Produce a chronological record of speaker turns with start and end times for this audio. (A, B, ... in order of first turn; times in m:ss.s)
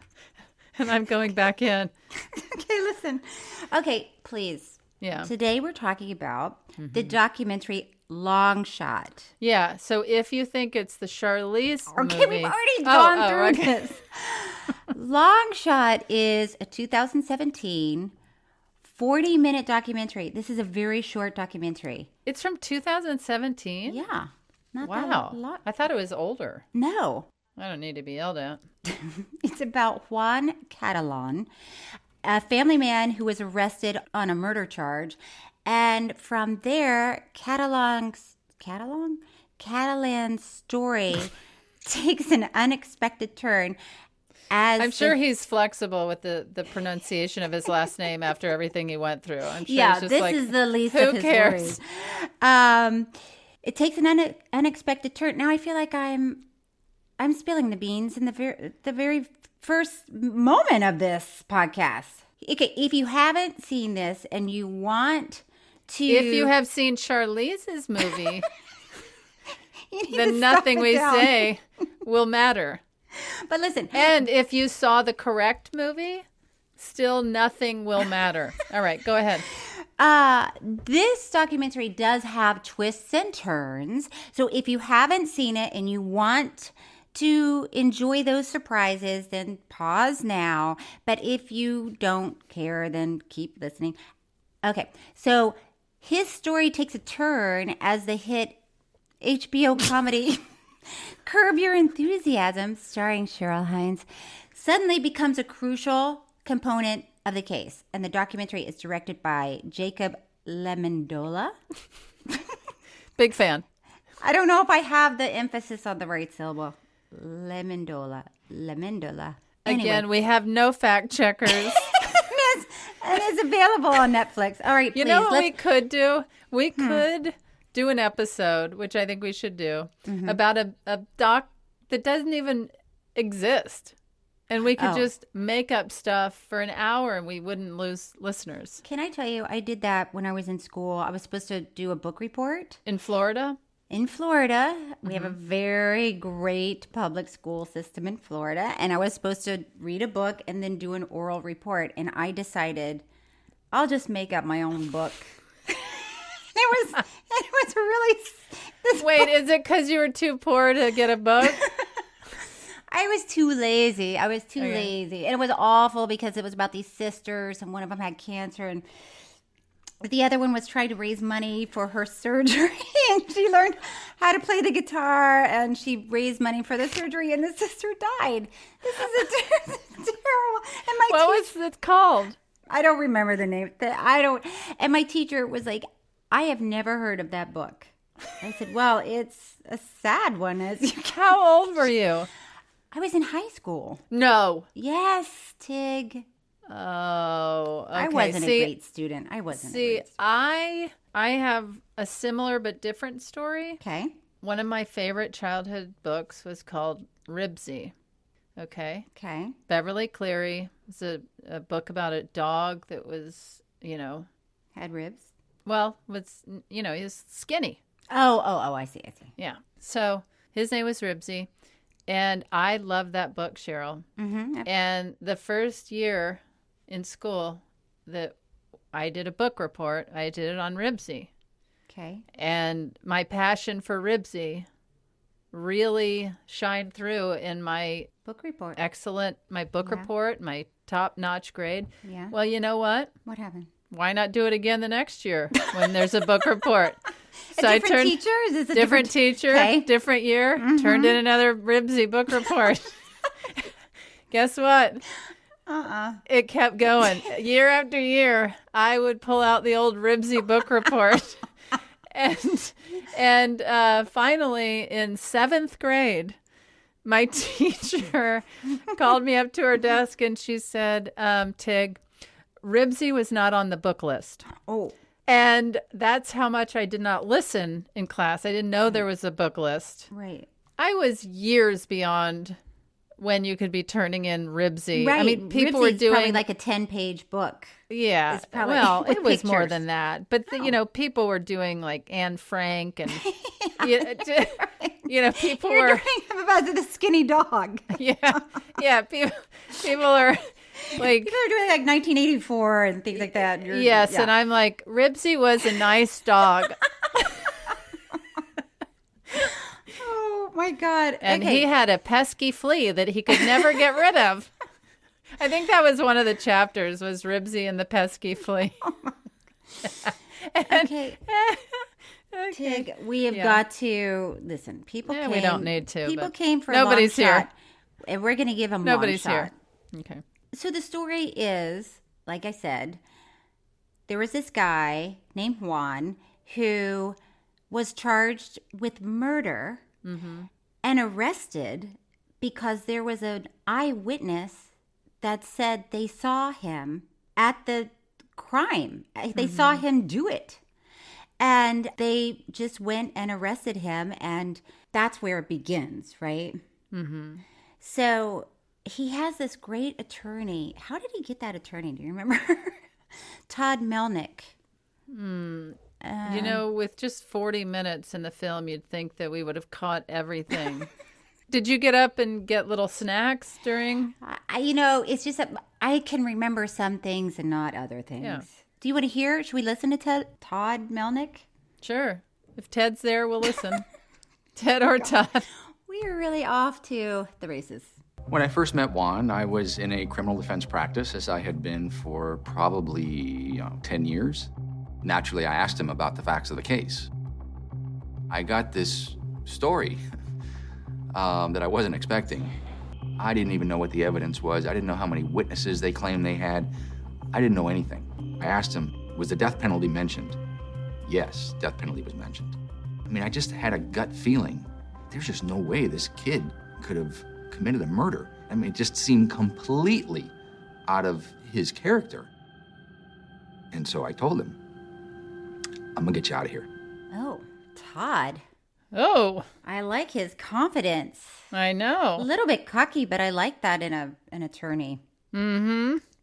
0:00.8-0:01.9 A
0:02.2-0:09.3 B
0:05.0-0:05.3 A
0:06.8-0:07.1 A
0:09.4-0:13.7 A
0:11.9-0:18.1 B
0:18.8-0:22.1 B
0:22.2-0:24.0 A
0:23.9-0:25.6 B
0:24.8-0:26.6 A
0:26.7-0:27.3 B
0:27.6-0:28.6 A
0:28.8-0:31.5 B
0:32.2-0:41.3 B
0:41.8-0:43.8 B
0:44.5-0:45.2 B
0:44.8-0:51.8 A
0:49.6-0:53.1 B
0:53.6-0:56.4 B
0:57.2-1:06.5 B
1:06.1-1:08.5 A
1:09.9-1:11.5 B
1:10.1-1:12.8 A
1:13.1-1:14.2 B
1:13.9-1:16.2 A
1:16.8-1:19.4 A
1:19.6-1:34.0 B
1:34.6-1:38.6 B
1:39.2-1:51.5 B
1:53.2-1:53.6 A
1:54.2-2:00.1 B
1:59.6-2:01.9 A
2:01.7-2:05.6 B
2:04.9-2:13.9 A
2:06.8-2:07.0 B
2:10.0-2:10.4 B
2:14.5-2:18.8 A
2:14.8-2:15.1 B
2:18.8-2:22.8 B
2:22.8-2:23.6 A
2:23.9-2:33.0 B
2:25.0-2:25.3 A
2:33.7-2:39.3 B
2:39.0-2:41.6 A
2:41.4-2:41.9 B
2:42.9-2:48.8 B
2:44.6-2:44.9 A
2:50.0-3:01.5 B
3:01.1-3:02.4 A
3:02.7-3:11.4 B
3:11.1-3:12.3 A
3:12.9-3:14.0 B
3:14.1-3:14.7 A
3:14.7-3:16.2 B
3:16.7-3:18.7 A
3:17.9-3:20.1 B
3:19.5-3:23.8 A
3:23.8-3:24.2 B
3:24.4-3:27.9 A
3:28.6-3:29.0 A
3:29.1-3:29.6 B
3:29.7-3:34.3 A
3:34.7-3:35.3 B
3:35.6-3:37.8 A
3:38.1-3:39.3 B
3:39.4-3:41.5 A
3:42.1-3:44.0 A
3:44.2-3:44.7 B
3:44.6-3:48.3 A
3:48.9-3:51.3 A
3:51.9-3:52.2 B
3:52.3-3:54.6 A
3:55.5-3:58.1 A
3:58.2-3:58.8 B
3:58.8-4:03.1 A
3:59.8-4:00.1 B
4:02.0-4:02.3 B
4:03.2-4:03.7 B
4:03.9-4:07.0 A
4:07.5-4:09.9 B
4:07.6-4:08.2 A
4:08.7-4:12.9 A
4:10.6-4:11.2 B
4:14.3-4:15.0 A
4:15.7-4:16.2 B
4:16.3-4:21.4 A
4:22.1-4:26.4 A
4:27.0-4:32.0 A
4:32.6-4:34.4 A
4:34.5-4:34.9 B
4:35.3-4:40.1 A
4:40.1-4:40.5 B
4:40.8-4:42.6 A
4:43.2-4:46.4 A
4:44.9-4:49.8 B
4:47.9-4:53.3 A
4:53.1-4:58.4 B
4:53.8-4:56.1 A
4:57.9-5:01.3 A
5:00.9-5:04.3 B
5:03.5-5:06.8 A
5:09.9-5:11.7 B
5:11.2-5:14.5 A
5:13.3-5:13.7 B
5:15.4-5:18.8 A
5:18.8-5:19.1 B
5:19.8-5:23.6 A
5:20.6-5:21.2 B
5:22.5-5:29.5 B
5:25.1-5:27.5 A
5:28.8-5:30.2 A
5:30.5-5:33.0 B
5:34.1-5:37.2 B
5:37.7-5:39.8 B
5:40.0-5:40.5 A
5:40.8-5:50.6 B
5:49.4-5:49.8 A
5:51.4-5:56.6 B
5:56.9-5:57.4 A
5:57.8-6:02.8 B
6:03.5-6:04.5 B
6:05.1-6:10.9 A
6:06.0-6:06.6 B
6:11.5-6:14.1 A
6:14.2-6:21.4 B
6:21.8-6:23.8 A
6:24.6-6:25.5 A
6:25.0-6:25.2 B
6:25.8-6:28.0 B
6:28.3-6:34.5 C
6:35.0-6:37.1 C
6:38.3-6:40.0 C
6:41.1-6:42.5 C
6:43.2-6:46.7 C
6:47.3-6:50.4 C
6:51.0-7:00.3 C
7:00.9-7:02.3 C
7:03.7-7:04.6 C
7:05.9-7:06.7 C
7:07.1-7:08.4 B
7:08.9-7:09.5 A
7:09.6-7:11.4 B
7:11.5-7:12.3 A
7:12.2-7:15.0 B
7:15.3-7:16.0 A